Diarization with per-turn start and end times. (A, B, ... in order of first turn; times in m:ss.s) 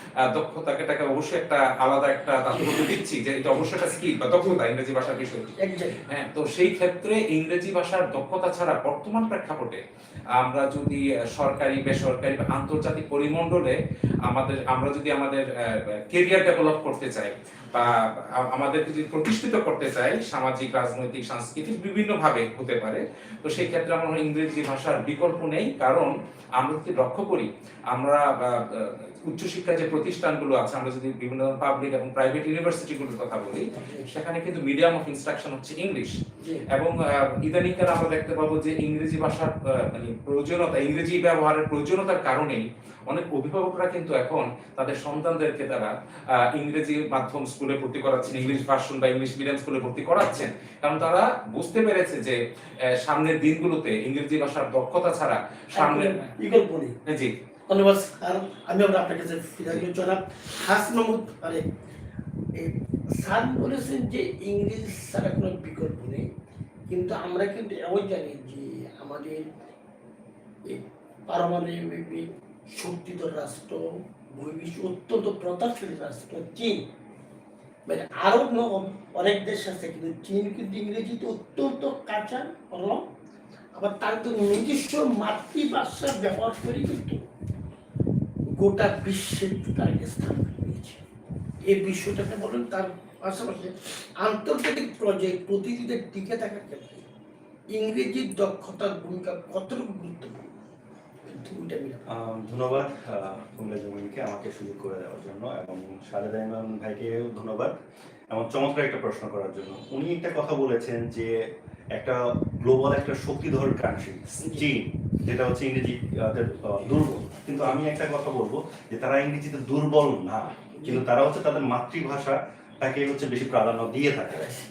0:00.3-0:05.5 A
0:02.5-0:02.8 B
0:05.6-0:06.0 B
0:06.0-0:09.8 A
0:10.4-0:13.8 A
0:14.3-0:36.2 A
0:33.7-0:34.2 B
0:36.4-0:36.7 B
0:36.7-0:45.9 A
0:46.5-0:52.4 A
0:53.0-0:56.3 A
0:55.8-0:57.0 B
0:57.1-0:57.3 A
0:57.7-1:01.6 B
1:02.6-1:06.3 B
1:06.9-1:09.4 B
1:10.7-1:13.8 B
1:14.3-1:16.8 B
1:17.9-1:23.1 B
1:23.8-1:27.2 B
1:28.5-1:31.0 B
1:31.6-1:37.1 B
1:37.7-1:40.5 B
1:41.3-1:42.1 B
1:42.1-1:47.8 C
1:48.3-1:51.3 C
1:51.9-2:04.5 C
1:54.4-1:54.7 B
2:00.8-2:01.0 B